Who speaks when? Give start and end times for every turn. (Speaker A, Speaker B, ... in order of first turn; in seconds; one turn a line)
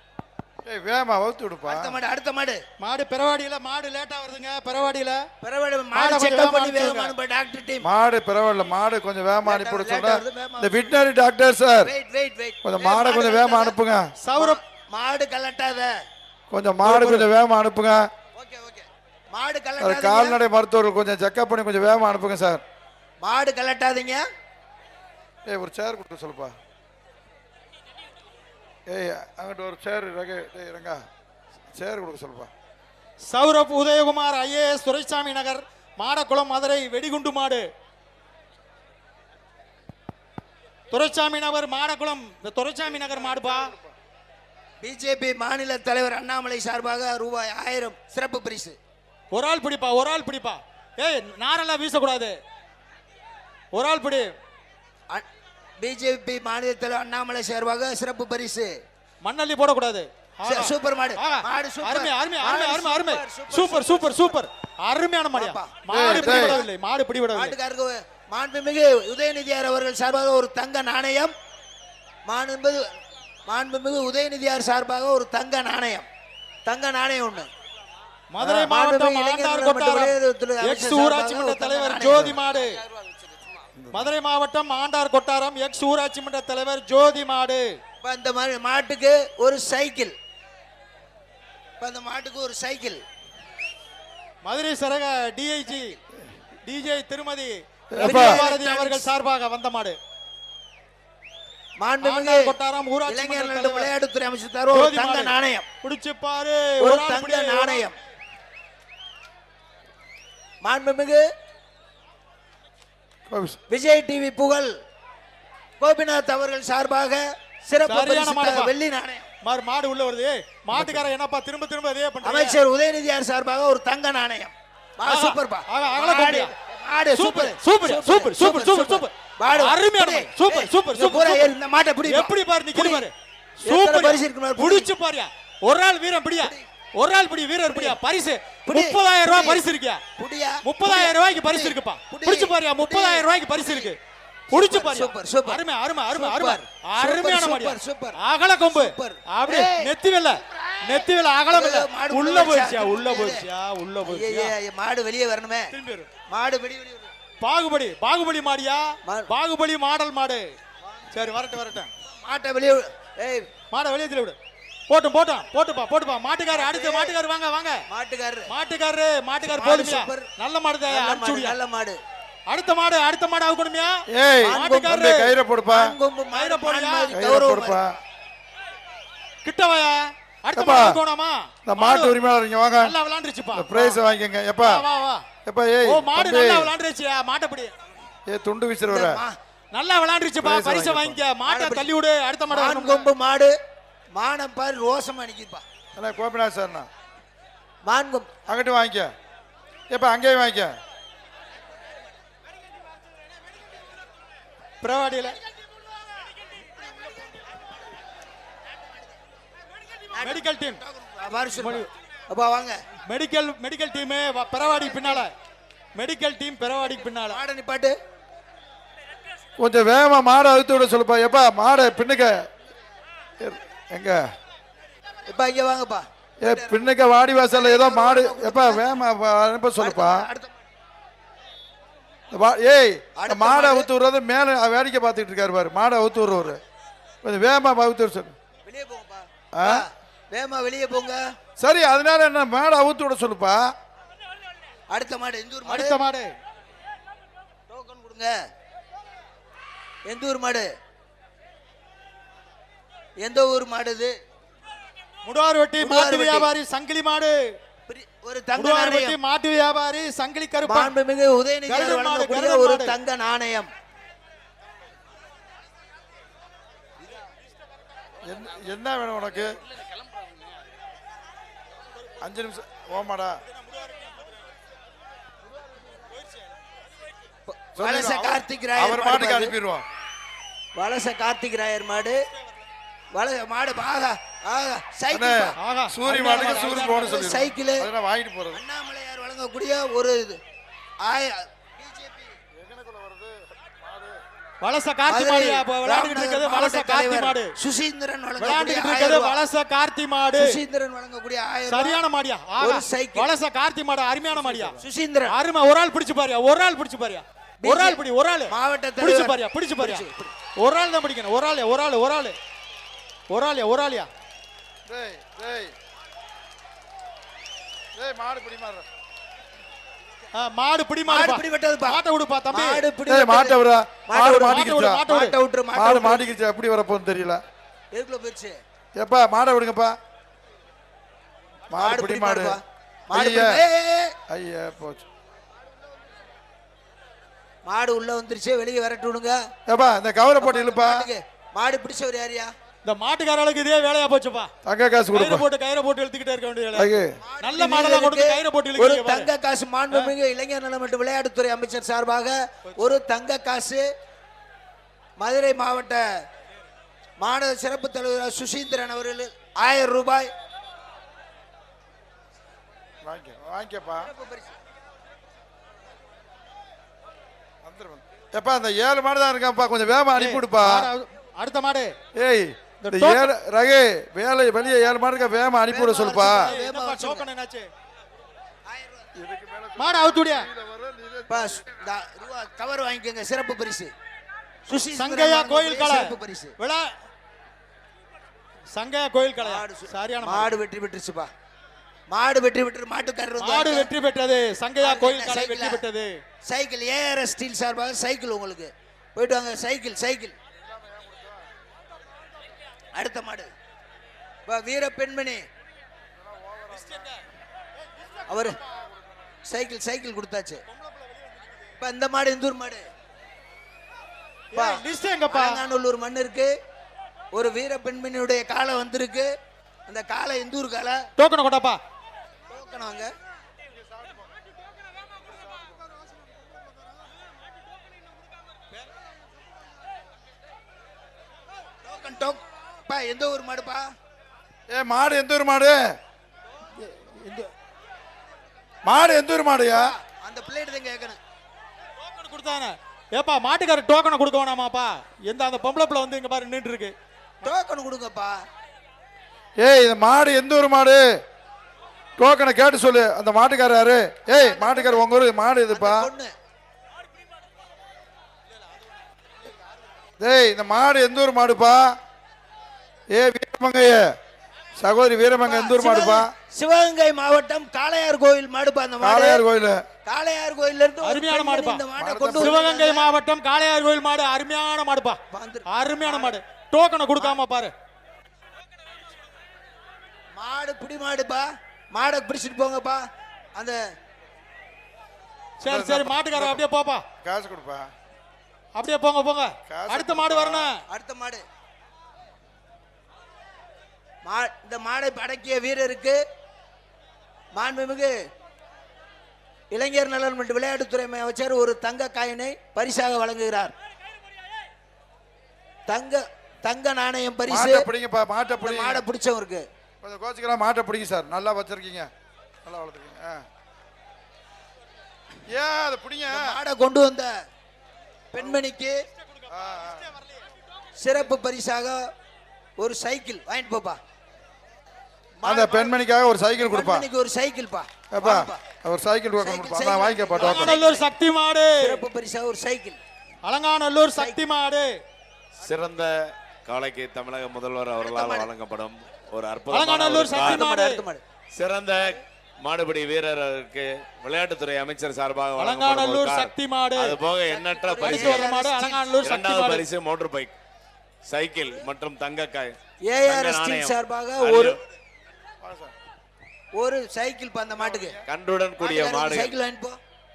Speaker A: 0.6-2.0
Speaker B: 1.7-2.6
Speaker C: 2.8-5.2
Speaker B: 5.4-7.8
Speaker C: 5.9-7.1
Speaker A: 7.8-11.9
Speaker B: 9.4-10.9
Speaker B: 11.8-13.8
Speaker A: 12.6-14.1
Speaker C: 14.2-14.6
Speaker B: 14.3-15.9
Speaker A: 16.5-18.1
Speaker C: 16.8-17.3
Speaker B: 18.3-20.4
Speaker A: 19.8-22.6
Speaker B: 23.2-24.2
Speaker A: 25.4-26.5
Speaker A: 28.9-31.0
Speaker A: 31.7-32.5
Speaker C: 33.2-37.6
Speaker C: 40.9-43.7
Speaker A: 43.1-43.8
Speaker B: 44.8-48.8
Speaker C: 49.3-52.4
Speaker C: 53.7-54.3
Speaker B: 55.8-58.7
Speaker C: 59.2-67.5
Speaker B: 60.4-64.4
Speaker B: 65.3-66.7
Speaker A: 65.9-66.6
Speaker B: 67.3-71.3
Speaker B: 72.2-72.8
Speaker B: 73.5-76.1
Speaker B: 76.6-77.5
Speaker C: 78.3-82.8
Speaker B: 78.4-82.4
Speaker A: 83.8-84.1
Speaker C: 83.9-87.7
Speaker B: 88.0-90.1
Speaker B: 91.8-93.0
Speaker C: 94.4-96.0
Speaker C: 96.6-100.0
Speaker A: 97.9-98.4
Speaker B: 98.0-99.1
Speaker B: 101.8-105.7
Speaker C: 102.0-103.9
Speaker C: 104.7-107.9
Speaker B: 106.8-108.0
Speaker B: 110.6-111.2
Speaker A: 113.3-113.6
Speaker B: 113.7-114.7
Speaker B: 115.8-119.3
Speaker C: 117.8-118.7
Speaker C: 119.4-122.6
Speaker A: 120.7-121.1
Speaker B: 122.2-133.1
Speaker C: 125.0-126.5
Speaker C: 127.1-133.1
Speaker C: 133.6-140.0
Speaker B: 133.6-134.9
Speaker B: 137.7-137.9
Speaker B: 138.7-139.6
Speaker B: 140.2-143.9
Speaker C: 140.6-144.0
Speaker B: 144.5-149.9
Speaker C: 144.5-154.5
Speaker B: 150.5-153.4
Speaker B: 154.0-155.7
Speaker C: 155.7-156.1
Speaker B: 156.3-157.1
Speaker C: 157.4-160.5
Speaker B: 159.1-159.3
Speaker C: 161.1-161.9
Speaker B: 162.1-163.5
Speaker C: 163.7-164.3
Speaker C: 164.9-167.8
Speaker B: 166.5-167.1
Speaker B: 167.9-168.5
Speaker C: 168.5-171.6
Speaker B: 169.4-170.3
Speaker B: 170.8-172.0
Speaker C: 172.5-175.3
Speaker A: 174.1-175.9
Speaker B: 174.4-175.0
Speaker B: 175.7-178.0
Speaker C: 176.3-177.1
Speaker A: 177.1-177.9
Speaker C: 179.4-182.1
Speaker A: 180.6-181.0
Speaker A: 181.6-182.9
Speaker C: 182.8-183.9
Speaker A: 183.5-184.8
Speaker C: 184.6-185.2
Speaker A: 185.4-186.7
Speaker C: 185.8-187.7
Speaker A: 188.2-189.2
Speaker B: 188.9-189.4
Speaker C: 189.7-193.1
Speaker A: 190.4-191.2
Speaker B: 191.5-191.9
Speaker B: 192.5-193.6
Speaker B: 194.1-195.6
Speaker A: 195.9-196.9
Speaker B: 197.8-198.3
Speaker A: 198.5-199.1
Speaker A: 199.9-200.7
Speaker C: 204.8-205.4
Speaker B: 210.1-212.8
Speaker C: 210.2-210.8
Speaker C: 211.6-211.9
Speaker C: 213.1-215.3
Speaker B: 214.8-215.2
Speaker C: 215.9-217.4
Speaker B: 217.3-217.9
Speaker A: 219.6-222.5
Speaker A: 223.4-224.3
Speaker B: 225.3-226.8
Speaker A: 226.4-230.2
Speaker B: 227.5-228.9
Speaker B: 229.8-230.6
Speaker A: 232.3-236.6
Speaker B: 233.2-233.9
Speaker A: 237.2-238.3
Speaker B: 238.6-241.2
Speaker A: 239.5-239.8
Speaker A: 241.6-243.7
Speaker B: 244.9-246.0
Speaker C: 245.7-246.3
Speaker B: 247.7-248.3
Speaker B: 250.1-250.7
Speaker B: 253.2-254.1
Speaker C: 255.2-257.4
Speaker B: 255.8-256.5
Speaker B: 257.9-259.1
Speaker C: 258.6-260.9
Speaker B: 260.6-263.7
Speaker C: 261.7-263.0
Speaker A: 268.2-269.6
Speaker A: 272.2-273.4
Speaker C: 273.6-274.1
Speaker B: 277.5-279.5
Speaker A: 277.8-279.8
Speaker B: 280.7-282.2
Speaker B: 283.1-285.6
Speaker A: 285.1-288.6
Speaker C: 285.6-287.3
Speaker B: 286.2-287.9
Speaker B: 288.5-290.4
Speaker B: 291.0-292.4
Speaker A: 292.6-294.2
Speaker C: 294.6-297.5
Speaker B: 295.1-299.4
Speaker C: 298.4-300.5
Speaker B: 300.4-302.0
Speaker C: 301.7-310.0
Speaker B: 302.6-303.3
Speaker B: 304.8-305.3
Speaker B: 307.6-310.3
Speaker C: 310.6-312.4
Speaker C: 313.3-314.1
Speaker A: 314.9-315.7
Speaker A: 318.0-318.8
Speaker C: 320.3-322.8
Speaker B: 321.1-326.3
Speaker A: 323.1-325.0
Speaker C: 324.2-325.4
Speaker A: 325.7-327.4
Speaker B: 327.9-328.5
Speaker A: 328.9-330.0
Speaker A: 331.7-332.6
Speaker B: 331.8-334.1
Speaker A: 333.1-333.6
Speaker A: 334.3-335.0
Speaker B: 337.6-339.4
Speaker A: 339.7-341.0
Speaker B: 340.4-342.5
Speaker C: 342.8-344.5
Speaker A: 344.6-345.4
Speaker C: 345.1-349.3
Speaker A: 346.7-347.1
Speaker B: 347.2-353.9
Speaker B: 355.2-356.0
Speaker B: 357.2-360.3
Speaker A: 363.0-364.1
Speaker B: 364.0-364.5
Speaker A: 367.6-370.9
Speaker C: 370.1-371.9
Speaker A: 372.1-376.5
Speaker C: 372.8-373.2
Speaker B: 375.7-377.3
Speaker C: 376.3-377.7
Speaker B: 378.6-379.1
Speaker A: 379.1-381.6
Speaker C: 379.8-380.5
Speaker B: 381.3-383.9
Speaker B: 384.7-386.5
Speaker C: 384.9-386.8
Speaker C: 388.7-390.5
Speaker B: 389.4-391.3
Speaker B: 392.1-393.9
Speaker C: 393.4-396.1
Speaker B: 394.8-395.8
Speaker B: 396.4-400.3
Speaker A: 400.8-401.3
Speaker B: 402.9-403.5
Speaker B: 404.4-405.4
Speaker A: 406.3-407.0
Speaker C: 406.7-407.2
Speaker C: 408.0-408.5
Speaker B: 408.3-408.6
Speaker B: 409.4-410.6
Speaker C: 410.7-411.6
Speaker B: 411.8-412.8
Speaker C: 414.5-415.6
Speaker B: 414.5-416.5
Speaker B: 417.3-419.3
Speaker B: 419.9-421.0
Speaker C: 421.2-421.8
Speaker B: 422.5-423.1
Speaker B: 431.8-433.9
Speaker A: 434.7-435.8
Speaker C: 436.8-437.5
Speaker A: 438.8-439.9
Speaker B: 439.7-441.2
Speaker C: 442.0-446.9
Speaker B: 447.4-448.4
Speaker A: 449.6-451.1
Speaker A: 452.2-456.1
Speaker B: 454.3-455.0
Speaker B: 455.7-456.3
Speaker A: 460.2-462.0
Speaker A: 463.1-464.1
Speaker A: 464.8-466.3
Speaker B: 465.4-469.4
Speaker A: 469.0-469.8
Speaker B: 470.0-473.1
Speaker C: 471.0-471.8
Speaker A: 472.0-472.6
Speaker C: 472.4-477.7
Speaker B: 475.3-476.4
Speaker B: 480.4-483.0
Speaker C: 485.6-487.0
Speaker A: 485.6-486.6
Speaker A: 487.2-487.9
Speaker C: 488.7-490.8
Speaker A: 489.7-490.7
Speaker B: 490.9-491.4
Speaker B: 494.2-496.2
Speaker B: 497.5-498.1
Speaker B: 499.7-503.7
Speaker B: 505.9-507.9
Speaker A: 507.5-509.0
Speaker B: 508.6-509.6
Speaker A: 510.0-512.1
Speaker A: 512.6-513.4
Speaker A: 515.5-516.5
Speaker B: 516.3-517.3
Speaker B: 518.3-519.0
Speaker A: 519.5-520.1
Speaker C: 519.7-520.4
Speaker B: 521.0-522.0
Speaker B: 522.8-524.0
Speaker B: 525.4-526.0
Speaker A: 525.4-527.1
Speaker B: 526.6-528.6
Speaker A: 528.1-530.8
Speaker B: 529.4-531.1
Speaker C: 530.4-532.0
Speaker B: 531.8-533.0
Speaker C: 533.4-534.9
Speaker B: 534.1-534.4
Speaker D: 535.6-536.1
Speaker D: 536.6-540.6
Speaker B: 538.0-538.5
Speaker C: 539.7-541.0
Speaker B: 540.3-541.2
Speaker D: 541.5-548.5
Speaker C: 545.6-547.2
Speaker B: 547.5-549.1
Speaker C: 548.0-549.8
Speaker D: 549.2-550.5
Speaker D: 551.3-554.8
Speaker B: 553.1-554.8
Speaker A: 555.6-555.9
Speaker B: 556.7-558.2
Speaker A: 557.7-558.2
Speaker D: 558.2-559.5
Speaker B: 558.8-560.0